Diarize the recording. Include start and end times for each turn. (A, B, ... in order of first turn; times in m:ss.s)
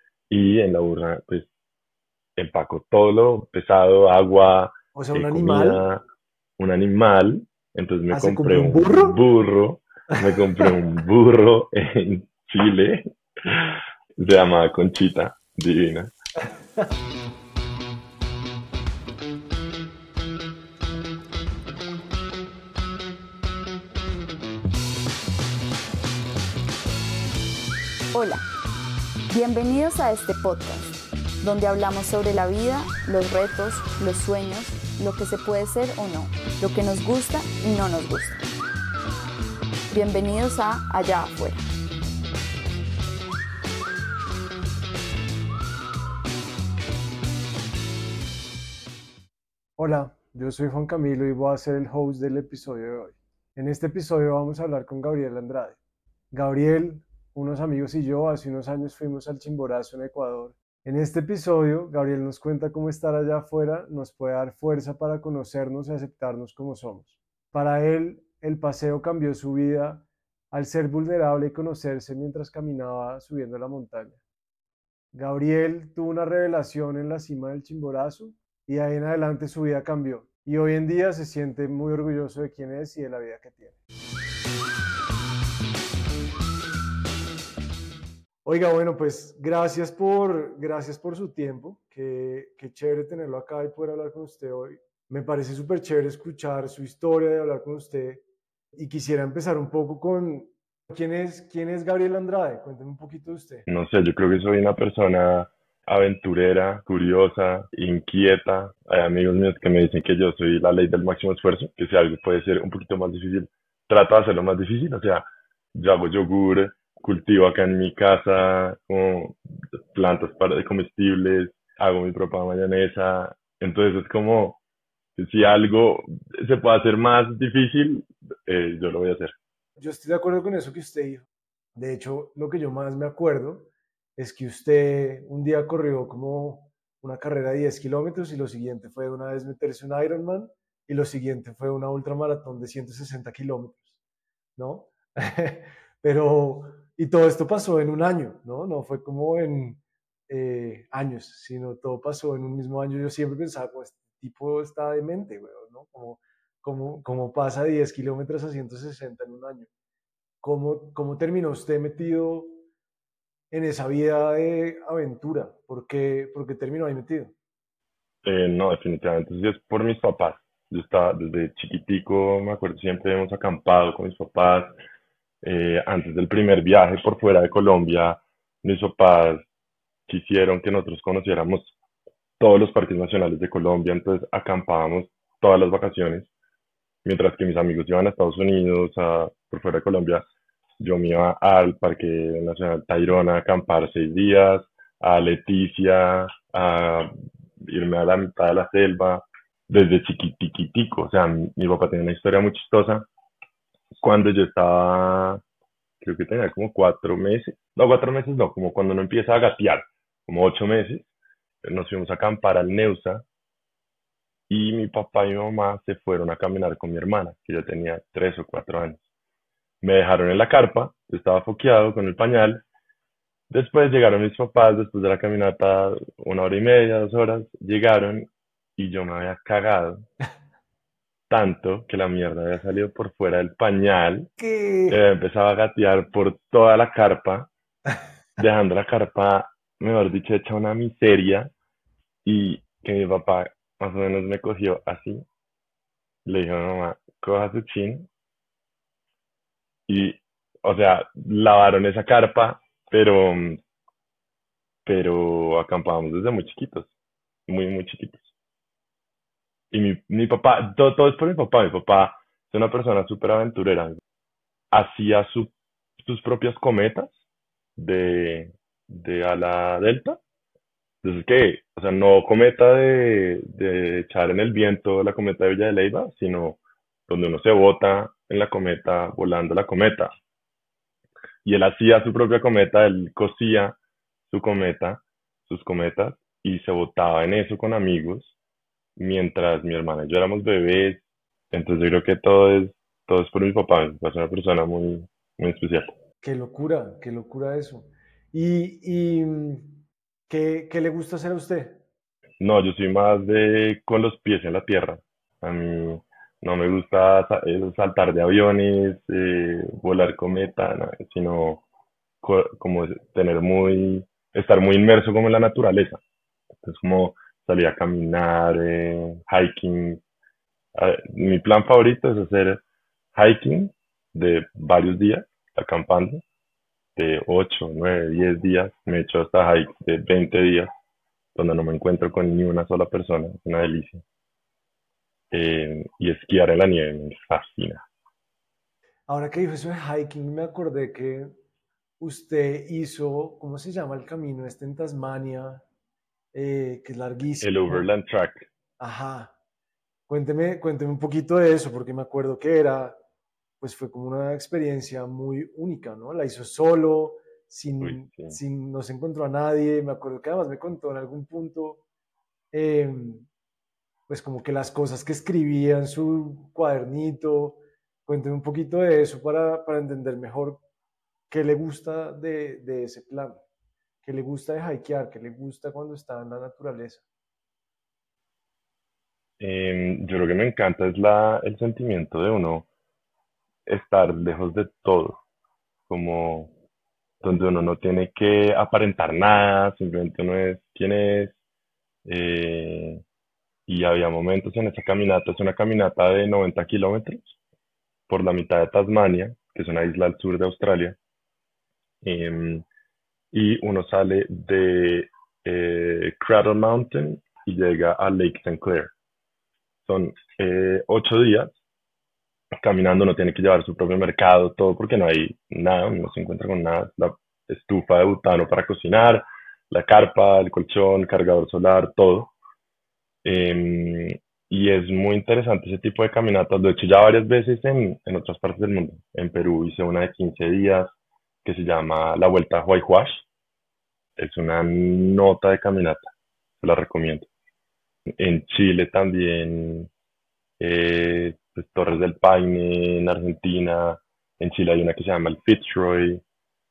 0:00.3-0:01.5 A
0:02.4-0:06.0 A
0:05.0-0:05.8 B
0:06.6-0:16.1 A
0:08.1-0:09.2 B
0:28.1-0:28.4 C
0:29.3-0:38.4 C
0:39.9-0:41.6 C
0:49.8-0:55.8 B
0:56.3-1:14.2 B
1:15.1-1:23.8 B
1:28.4-1:38.2 B
1:38.8-1:43.7 B
1:43.7-1:59.4 A
1:59.9-2:04.6 A
2:05.2-2:09.4 A
2:09.8-2:24.0 B
2:24.6-2:39.7 B
2:40.4-2:42.6 B
2:43.5-2:47.3 B
2:48.2-2:54.8 A
2:55.4-2:59.5 A
3:00.1-3:01.8 A
3:02.4-3:06.3 A
3:07.0-3:10.2 A
3:10.8-3:17.1 A
3:17.7-3:23.1 A
3:24.0-3:25.4 A
3:26.0-3:31.1 A
3:31.6-3:33.2 A
3:34.5-3:39.0 A
3:39.8-3:42.6 A
3:43.5-3:50.0 A
3:51.3-3:54.3 A
3:54.4-3:55.0 B
3:54.9-3:57.5 A
3:58.4-4:01.5 A
4:02.2-4:05.2 A
4:06.3-4:08.1 A
4:09.9-4:13.6 A
4:14.8-4:16.9 A
4:17.5-4:18.3 A
4:19.7-4:24.0 A
4:24.7-4:27.1 A
4:27.8-4:30.2 A
4:31.0-4:40.1 A
4:41.4-4:43.8 A
4:44.3-4:48.4 A
4:49.0-4:55.9 A
4:56.2-5:01.8 B
5:02.4-5:11.6 A
5:12.2-5:16.0 A
5:16.6-5:20.0 A
5:20.8-5:22.6 A
5:23.2-5:26.2 A
5:27.0-5:30.7 A
5:31.4-5:34.0 A
5:35.3-5:37.9 A
5:39.1-5:41.4 B
5:42.0-5:45.6 B
5:46.3-5:47.9 B
5:47.4-5:48.5 A
5:48.8-5:49.3 B
5:50.1-5:53.0 B
5:53.6-6:01.8 B
5:57.8-5:58.4 A
6:02.5-6:03.3 B
6:04.1-6:10.6 B
6:11.3-6:13.4 B
6:14.0-6:17.0 B
6:19.4-6:22.7 A
6:23.7-6:25.2 A
6:25.9-6:26.5 A
6:27.2-6:31.3 A
6:32.0-6:33.0 A
6:33.7-6:37.3 A
6:38.1-6:41.0 A
6:42.0-6:42.6 A
6:43.3-6:48.9 A
6:49.8-6:51.6 A
6:52.6-7:02.3 A
7:03.2-7:10.9 A
7:11.4-7:13.2 A
7:14.2-7:17.3 A
7:18.2-7:19.9 A
7:20.6-7:26.2 A